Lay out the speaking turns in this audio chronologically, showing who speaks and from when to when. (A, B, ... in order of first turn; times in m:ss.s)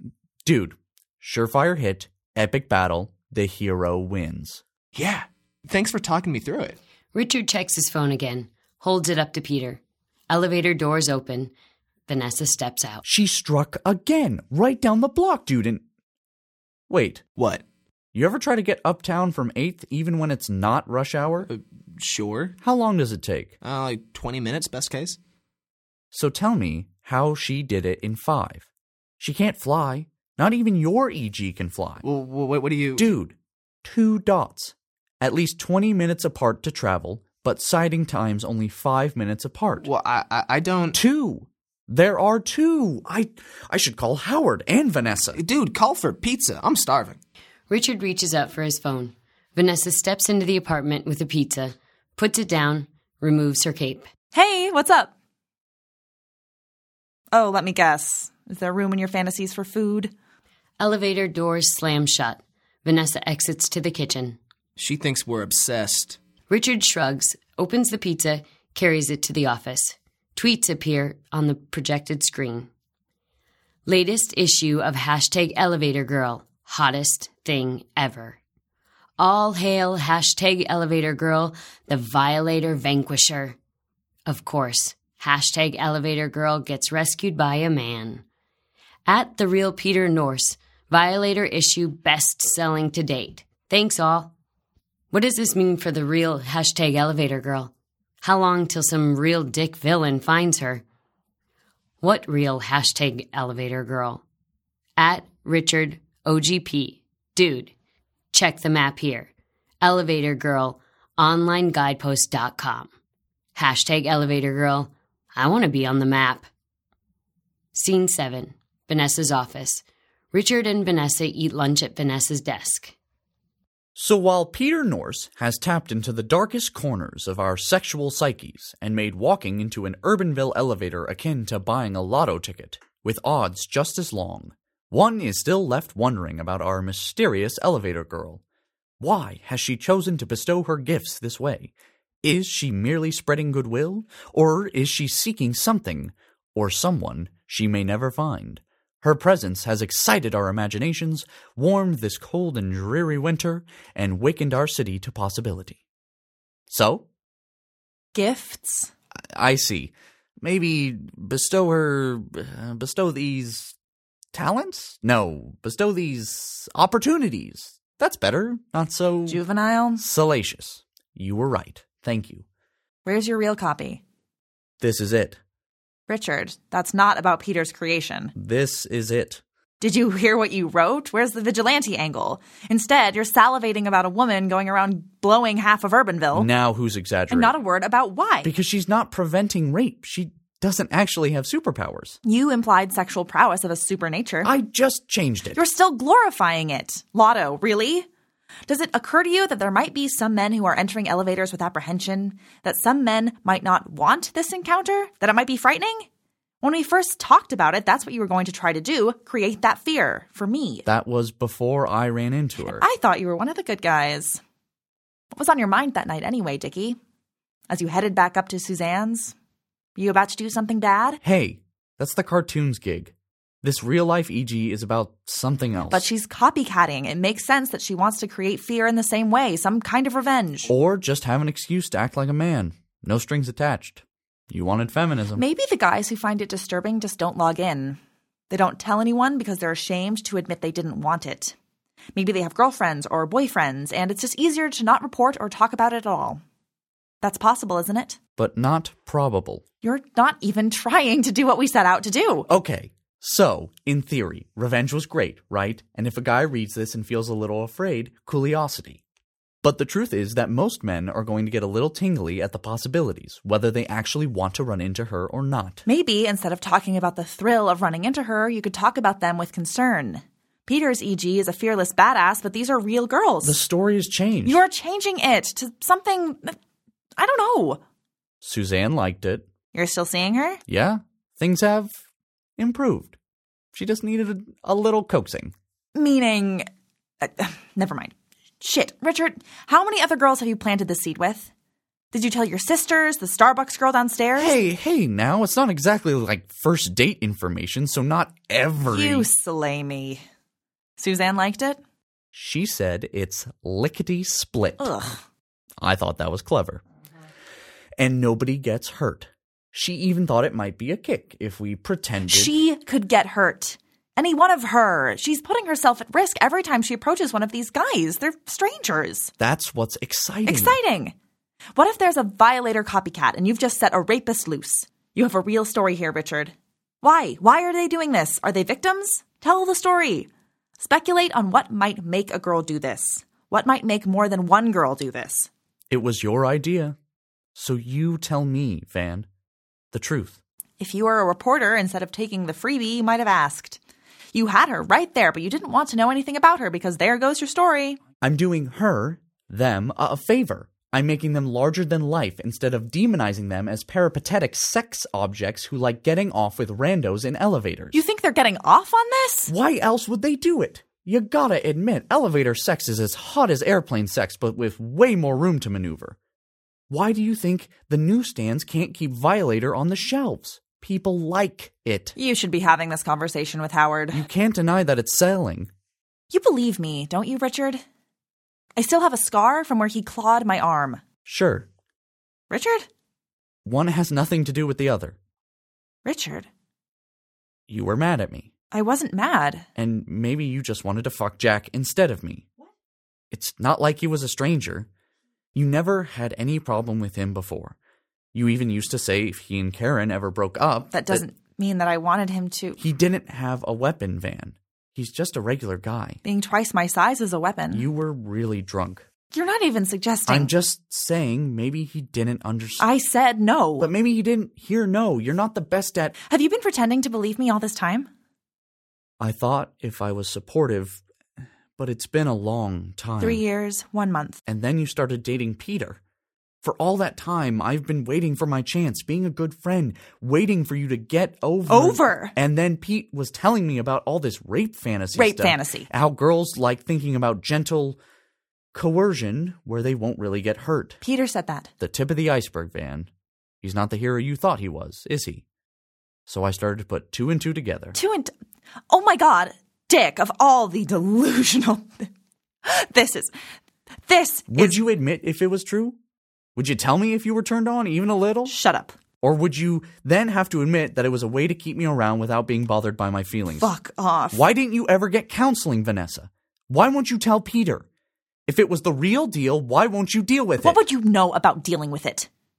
0:00.4-0:04.6 A
0:04.9-0:06.8 B
0:07.1-0:11.5 C
0:12.1-0:13.0 C
0:13.0-0:15.8 A
0:16.9-0:17.2 A
0:17.4-0:17.6 B
0:18.1-0:21.5 A
0:21.5-0:22.6 B
0:22.6-0:23.5 A
0:23.6-0:25.2 B
0:26.1-0:28.6 A
0:29.2-0:32.0 A
0:32.0-0:33.1 B
0:33.0-0:39.9 A
0:39.8-0:41.0 B
0:40.9-0:45.4 A
0:45.4-0:47.2 B
0:47.7-0:54.1 C
0:54.3-0:55.1 D
0:57.3-1:00.1 D
1:00.8-1:04.4 C
1:04.8-1:06.2 B
1:06.5-1:12.7 C
1:13.8-1:18.4 C
1:19.2-1:23.6 C
1:24.3-1:28.2 C
1:29.0-1:34.3 C
1:35.1-1:40.8 C
1:42.0-1:44.2 C
1:45.0-1:47.7 C
1:48.3-1:49.3 C
1:49.8-1:52.9 C
1:53.6-1:56.5 C
1:57.7-2:02.9 C
2:03.9-2:18.4 A
2:19.0-2:21.7 A
2:22.2-2:35.8 A
2:36.7-2:37.0 A
2:38.1-2:38.9 D
2:39.3-2:43.7 A
2:44.3-2:49.4 A
2:49.3-2:50.0 D
2:50.0-2:52.4 A
2:53.0-2:54.0 D
2:54.8-2:55.4 A
2:56.1-2:58.3 D
2:58.3-2:59.4 A
2:59.8-3:06.5 D
3:06.3-3:07.5 A
3:07.3-3:08.5 D
3:08.4-3:12.2 A
3:12.2-3:14.5 D
3:14.4-3:15.6 A
3:15.5-3:18.0 D
3:18.7-3:26.1 D
3:26.6-3:30.8 D
3:30.8-3:32.8 A
3:32.6-3:34.4 D
3:35.3-3:37.0 D
3:37.7-3:39.3 D
3:40.0-3:41.2 D
3:41.2-3:46.0 A
3:45.9-3:50.7 D
3:50.7-3:55.4 A
3:55.4-3:58.0 D
3:58.5-4:01.5 D
4:02.1-4:06.4 D
4:07.2-4:08.2 D
4:08.4-4:09.6 A
4:09.8-4:12.5 D
4:12.5-4:19.0 A
4:19.6-4:25.8 A
4:25.8-4:33.6 D
4:33.4-4:34.6 A
4:34.4-4:36.6 D
4:37.2-4:37.8 D
4:38.4-4:39.4 A
4:39.7-4:40.6 D
4:40.7-4:42.0 A
4:42.6-4:43.1 A
4:43.7-4:45.5 A
4:45.9-4:46.7 D
4:47.2-4:51.5 D
4:52.1-4:54.5 D
4:54.4-4:59.3 A
4:58.9-5:00.2 D
5:01.0-5:01.8 D
5:02.3-5:05.0 A
5:04.8-5:05.2 D
5:05.8-5:06.8 A
5:08.0-5:12.5 A
5:12.3-5:19.3 D
5:19.4-5:20.8 A
5:20.4-5:21.1 D
5:21.7-5:30.3 D
5:30.8-5:35.5 D
5:35.9-5:37.0 A
5:37.5-5:39.3 A
5:39.9-5:40.4 A
5:40.8-5:43.8 D
5:44.3-5:48.0 D
5:48.2-5:57.9 A
5:57.9-5:59.5 D
5:59.5-6:06.2 A
6:06.9-6:12.1 A
6:12.2-6:14.2 D
6:14.1-6:15.7 A
6:16.3-6:17.8 D
6:18.8-6:21.0 D
6:21.2-6:21.7 A
6:22.5-6:22.9 D
6:23.6-6:25.2 A
6:26.0-6:26.5 D
6:27.7-6:28.5 A
6:28.7-6:29.7 D
6:29.8-6:32.5 A
6:33.3-6:34.9 A
6:35.5-6:37.8 A
6:38.3-6:41.2 A
6:40.9-6:42.8 D
6:42.8-6:46.2 A
6:46.2-6:47.8 D
6:47.7-6:49.0 A
6:49.3-6:50.5 D
6:50.3-6:52.8 A
6:52.8-6:53.9 D
6:53.8-6:56.2 A
6:56.3-6:58.1 D
6:59.2-7:01.0 A
7:01.8-7:03.4 A
7:03.2-7:04.4 D
7:04.5-7:06.0 A
7:06.6-7:18.0 A
7:11.7-7:12.3 D
7:15.1-7:15.9 D
7:18.7-7:21.0 A
7:21.0-7:21.7 D
7:21.8-7:23.1 A
7:23.6-7:25.4 A
7:26.3-7:28.0 A
7:27.9-7:28.3 D
7:28.9-7:32.1 D
7:32.6-7:33.3 D
7:34.1-7:34.8 D
7:34.5-7:36.0 A
7:36.6-7:38.5 A
7:38.5-7:38.9 D
7:39.2-7:43.7 A
7:43.5-7:44.4 D
7:44.3-7:47.8 A
7:48.5-7:50.8 A
7:50.6-7:52.3 D